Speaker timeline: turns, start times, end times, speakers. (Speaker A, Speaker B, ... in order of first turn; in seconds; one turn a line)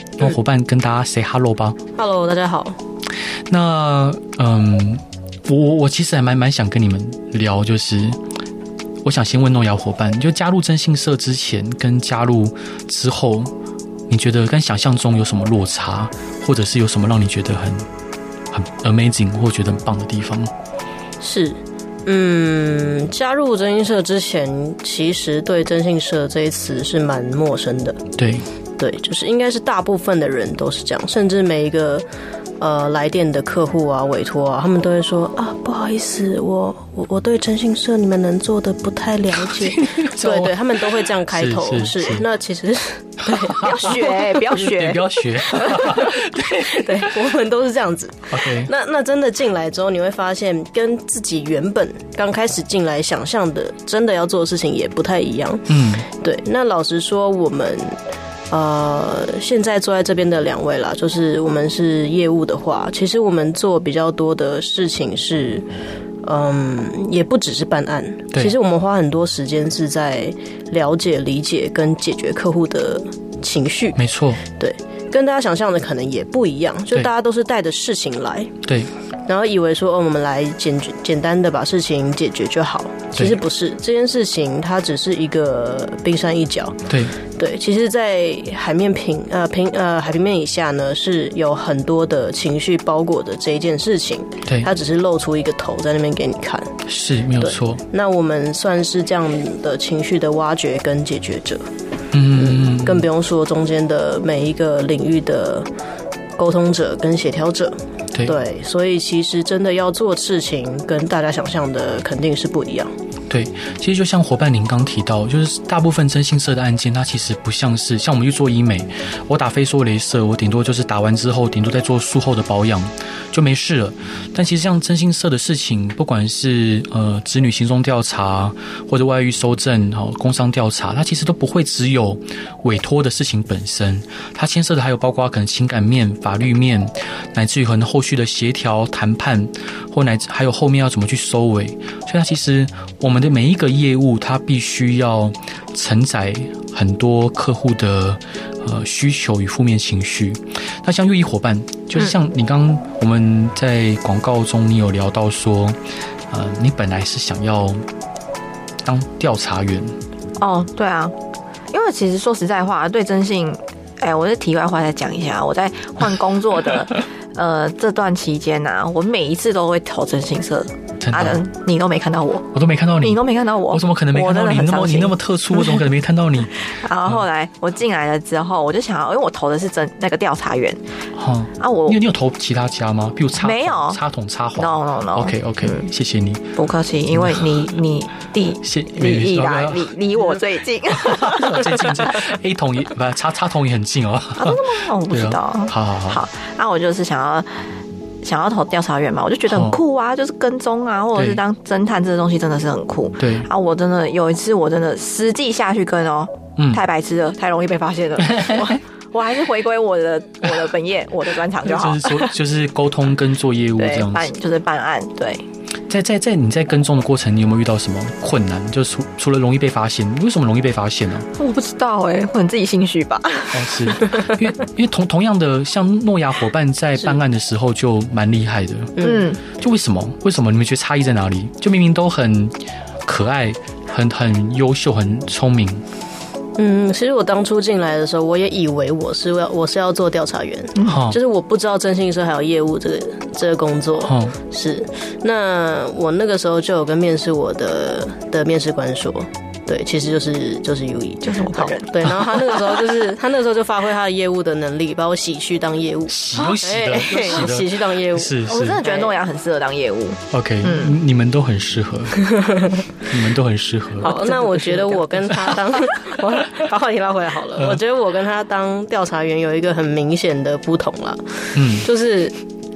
Speaker A: 0.2-1.8
Speaker B: 1.9-2.8
Speaker A: 3.5-8.2
Speaker A: 9.0-13.5
Speaker A: 14.1-17.9
Speaker A: 18.5-20.5
Speaker B: 21.2-28.0
Speaker A: 28.2-28.4
Speaker B: 28.8-32.0
Speaker B: 32.6-44.2
Speaker A: 39.5-40.6
Speaker A: 41.3-42.2
Speaker A: 43.3-47.1
Speaker C: 43.5-45.9
Speaker B: 45.5-58.0
Speaker A: 48.3-48.7
Speaker A: 55.7-56.1
Speaker B: 58.5-65.7
Speaker B: 66.2-74.0
Speaker A: 73.9-74.4
Speaker B: 74.5-78.6
Speaker A: 78.6-78.9
Speaker B: 79.2-96.8
Speaker A: 83.1-83.4
Speaker A: 86.9-87.2
Speaker A: 94.5-94.7
Speaker A: 96.8-97.8
Speaker B: 97.4-101.6
Speaker A: 102.1-103.1
Speaker B: 102.3-105.7
Speaker B: 106.4-112.9
Speaker A: 108.1-108.4
Speaker A: 113.3-157.8
Speaker A: 158.8-159.9
Speaker C: 160.4-161.1
Speaker C: 161.7-175.8
Speaker A: 171.0-171.4
Speaker A: 172.5-177.2
Speaker C: 176.6-180.8
Speaker A: 181.2-186.5
Speaker C: 181.6-182.0
Speaker C: 183.4-184.0
Speaker C: 184.5-185.9
Speaker C: 186.6-192.2
Speaker A: 187.1-187.5
Speaker A: 188.6-190.3
Speaker A: 190.9-196.2
Speaker C: 194.3-197.5
Speaker C: 198.2-212.3
Speaker A: 199.5-199.8
Speaker A: 201.1-201.4
Speaker A: 203.2-203.5
Speaker A: 208.2-208.7
Speaker A: 211.6-214.3
Speaker C: 213.8-215.4
Speaker A: 215.9-221.3
Speaker C: 221.3-224.4
Speaker A: 223.5-235.8
Speaker B: 229.0-229.3
Speaker C: 229.0-229.4
Speaker B: 236.6-259.1
Speaker A: 240.8-241.2
Speaker A: 244.1-244.4
Speaker C: 251.2-252.8
Speaker A: 256.1-258.8
Speaker C: 258.4-260.9
Speaker A: 260.3-262.4
Speaker B: 262.3-262.7
Speaker A: 263.1-264.2
Speaker B: 264.0-272.4
Speaker A: 271.5-271.9